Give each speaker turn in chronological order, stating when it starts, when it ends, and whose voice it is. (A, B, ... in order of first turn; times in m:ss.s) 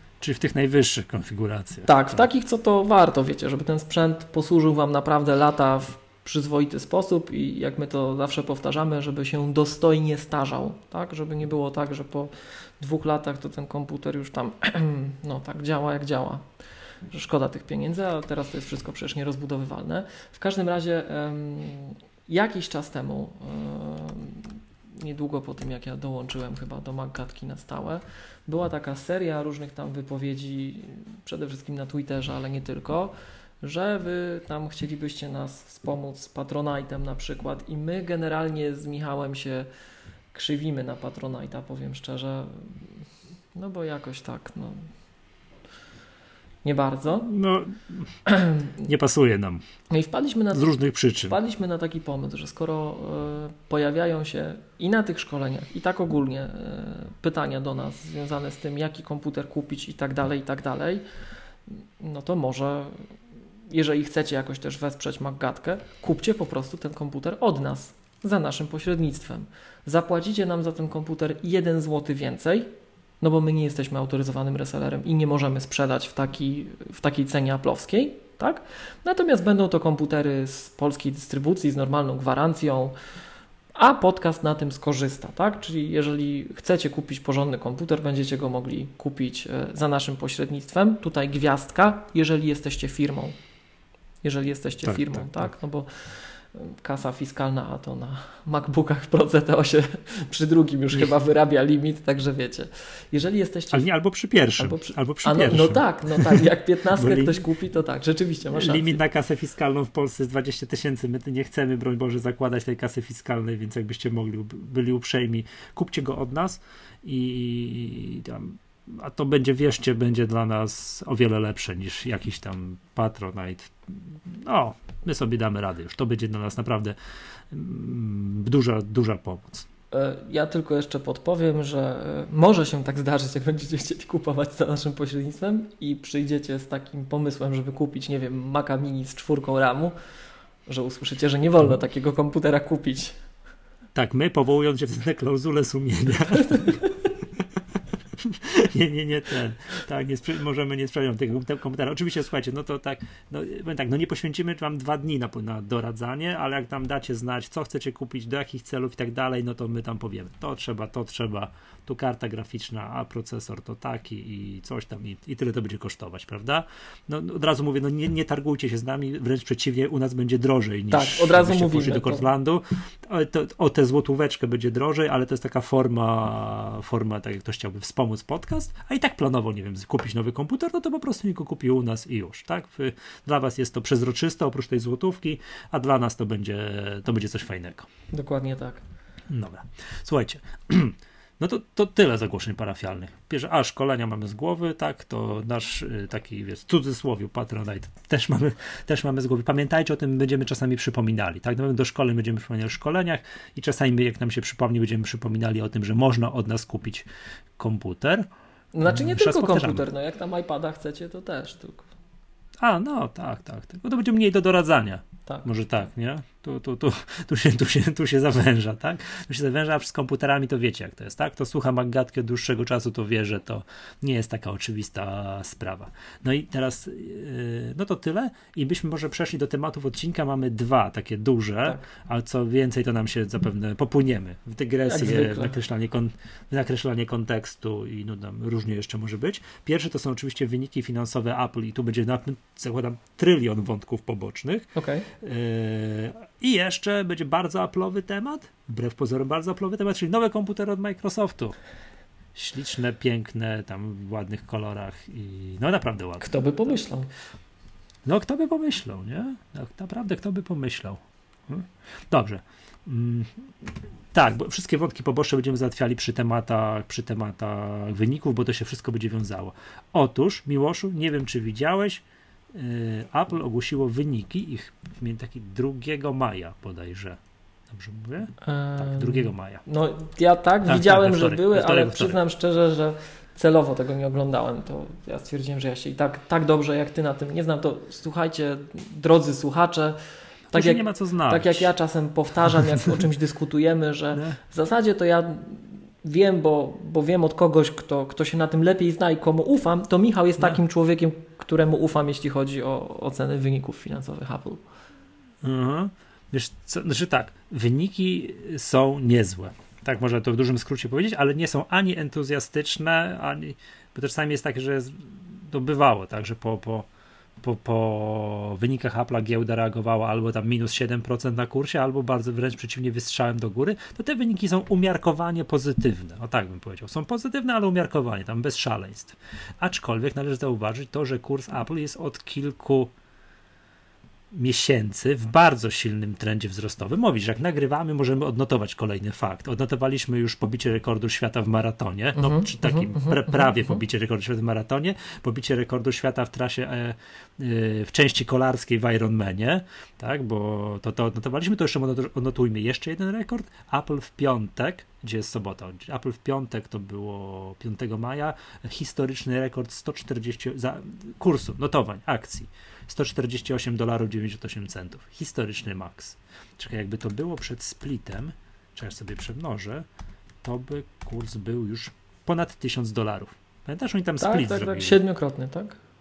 0:00.2-0:02.3 A
0:01.9-0:16.4 B
0:17.1-0:39.7 B
0:40.3-0:43.0 B
0:43.6-0:44.9 B
0:46.6-0:47.3 B
0:47.3-0:48.2 A
0:48.3-0:48.7 B
0:48.8-0:49.6 A
0:49.9-1:01.0 B
0:50.5-0:51.4 A
1:01.7-1:03.2 B
1:03.7-1:12.7 B
1:13.2-1:23.0 B
1:23.8-1:33.4 B
1:34.2-1:43.9 B
1:34.8-1:35.5 A
1:43.7-1:47.4 A
1:44.6-1:49.0 B
1:48.5-2:07.0 A
2:07.5-2:09.7 A
2:09.9-2:20.0 B
2:20.7-2:23.2 B
2:24.0-2:26.8 A
2:26.4-2:26.9 B
2:28.1-3:07.9 A
2:50.9-2:52.2 B
3:08.1-3:08.8 B
3:09.3-3:27.1 A
3:27.6-3:28.3 A
3:28.7-3:31.9 B
3:28.9-3:29.8 A
3:32.6-4:11.6 A
3:54.9-3:55.6 B
4:04.8-4:05.1 B
4:12.4-4:16.7 A
4:16.2-4:17.1 B
4:18.0-4:39.6 A
4:38.4-4:50.0 B
4:40.7-4:42.2 A
4:50.5-4:51.7 A
4:50.5-5:04.6 B
4:52.5-4:52.9 A
5:05.4-5:16.9 A
5:17.4-5:32.9 A
5:34.3-6:09.9 A
5:42.2-5:43.8 B
6:10.4-6:15.0 A
6:14.2-6:15.8 B